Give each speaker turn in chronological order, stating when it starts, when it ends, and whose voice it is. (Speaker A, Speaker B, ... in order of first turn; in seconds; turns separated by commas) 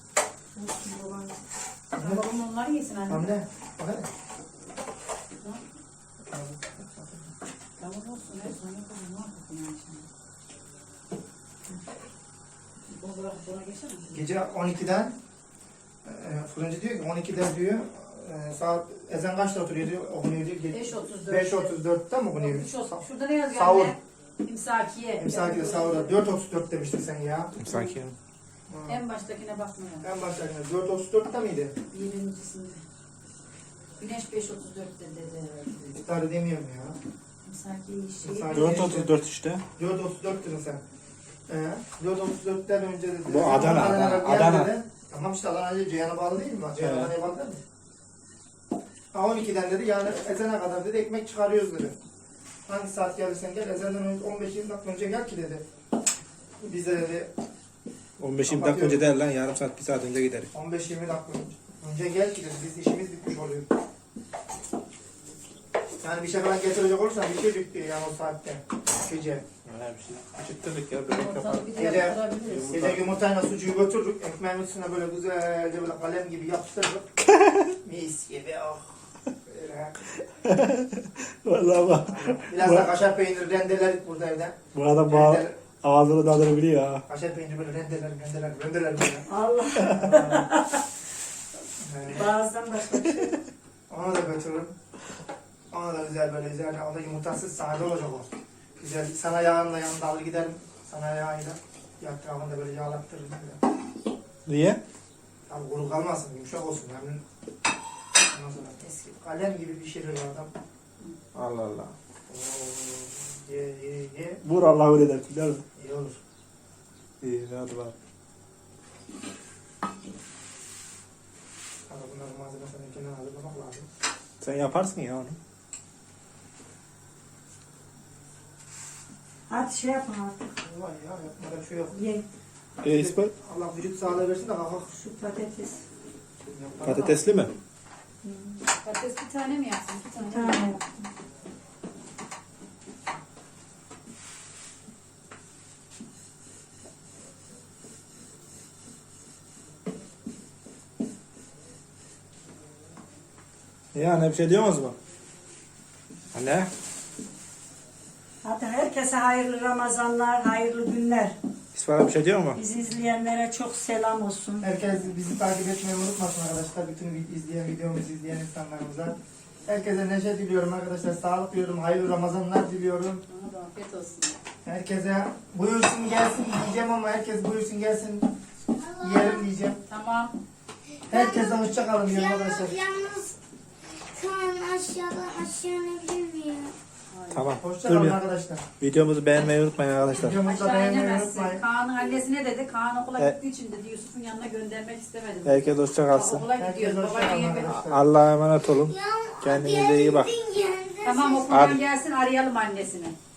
Speaker A: 0.6-1.4, Speaker B: 2.0-2.3, Speaker C: 2.0-3.3, Speaker B: 3.1-4.1, Speaker C: 5.4-5.7, Speaker B: 6.3-7.3, Speaker C: 7.8-10.1, Speaker C: 12.9-14.1, Speaker B: 14.1-15.2, Speaker B: 16.1-23.9, Speaker C: 20.7-21.8, Speaker C: 22.4-26.2, Speaker B: 25.2-27.6, Speaker D: 27.6-28.1, Speaker B: 28.7-29.0, Speaker C: 28.9-30.1, Speaker B: 30.0-31.8, Speaker C: 31.9-32.8, Speaker C: 34.0-35.7, Speaker B: 35.8-37.0, Speaker C: 37.4-38.9, Speaker B: 38.2-39.1, Speaker D: 38.5-39.6, Speaker B: 39.8-40.8, Speaker B: 41.5-47.6, Speaker D: 43.3-44.7, Speaker D: 46.8-47.1, Speaker B: 49.1-52.0, Speaker B: 52.7-55.6, Speaker B: 56.6-57.3, Speaker D: 58.2-60.5, Speaker B: 58.5-59.0, Speaker B: 60.5-63.7, Speaker B: 66.0-69.4, Speaker D: 69.6-71.7, Speaker C: 71.1-72.8, Speaker B: 71.8-77.1, Speaker D: 72.5-73.0, Speaker D: 77.2-77.8, Speaker B: 77.8-80.0, Speaker D: 80.2-82.9, Speaker B: 82.1-85.6, Speaker D: 84.7-87.0, Speaker B: 87.1-90.5, Speaker A: 89.3-90.8, Speaker B: 91.8-92.3, Speaker A: 92.1-93.4, Speaker B: 93.9-94.8, Speaker B: 95.7-103.6, Speaker D: 104.4-104.8, Speaker B: 105.5-107.2, Speaker B: 108.3-110.5, Speaker D: 111.3-111.9, Speaker B: 112.3-114.4, Speaker D: 114.4-115.6, Speaker B: 115.8-116.2, Speaker D: 117.2-117.9, Speaker B: 121.9-123.9, Speaker D: 124.4-125.4, Speaker A: 129.5-130.5, Speaker B: 130.6-132.0, Speaker A: 131.9-132.2, Speaker B: 132.8-135.0, Speaker D: 132.8-133.3, Speaker A: 134.9-135.8, Speaker B: 136.5-137.2, Speaker D: 136.8-137.5, Speaker A: 138.2-138.6, Speaker C: 138.8-140.8, Speaker A: 140.2-140.8, Speaker D: 153.9-155.0, Speaker D: 156.3-156.7, Speaker A: 158.4-161.4, Speaker D: 161.7-162.6, Speaker A: 162.6-164.7, Speaker B: 164.6-173.2, Speaker C: 173.3-174.3, Speaker B: 174.6-178.3, Speaker E: 178.8-179.5, Speaker B: 179.0-179.8, Speaker C: 179.9-180.3, Speaker B: 181.1-182.8, Speaker E: 181.1-183.4, Speaker E: 184.0-186.8, Speaker C: 187.1-187.5, Speaker D: 187.3-188.2, Speaker B: 187.6-188.6, Speaker D: 188.8-190.4, Speaker B: 190.1-191.6, Speaker C: 190.4-197.8, Speaker D: 195.4-196.4, Speaker B: 196.6-198.0, Speaker D: 197.7-200.3, Speaker E: 198.9-201.7, Speaker C: 201.0-203.2, Speaker D: 201.5-201.8